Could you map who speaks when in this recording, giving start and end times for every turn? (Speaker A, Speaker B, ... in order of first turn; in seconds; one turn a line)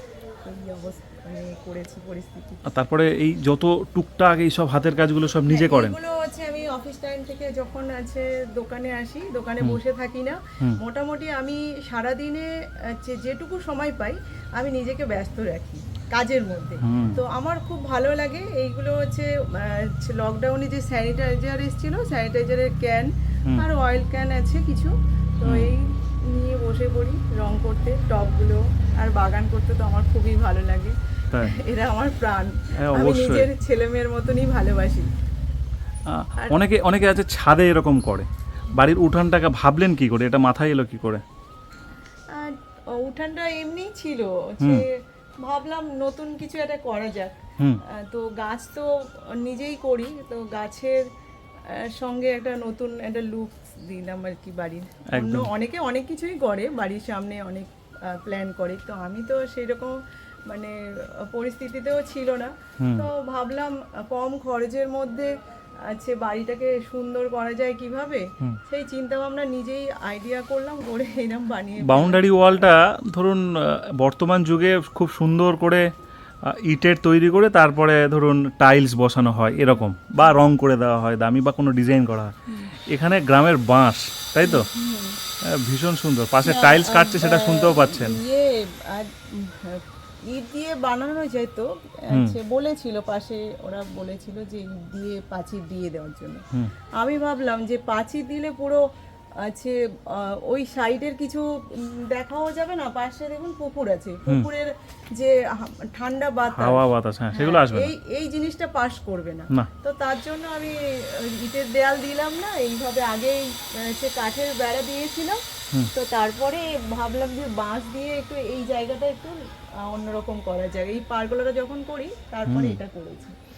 Speaker A: 0.4-2.6
Speaker B: 2.6-6.0
Speaker A: 5.5-35.1
Speaker B: 16.8-17.2
Speaker B: 25.4-25.7
Speaker B: 32.8-33.5
Speaker B: 36.0-41.2
Speaker A: 42.3-51.0
Speaker A: 51.7-72.6
Speaker B: 55.1-55.5
Speaker B: 62.8-63.1
Speaker B: 71.8-75.9
Speaker B: 76.4-82.3
Speaker B: 82.9-84.7
Speaker A: 84.4-85.2
Speaker B: 85.4-88.2
Speaker A: 86.4-96.4
Speaker B: 92.1-92.4
Speaker A: 97.0-98.8
Speaker A: 99.4-115.4
Speaker B: 106.5-107.9
Speaker A: 115.9-123.4
Speaker B: 122.5-122.8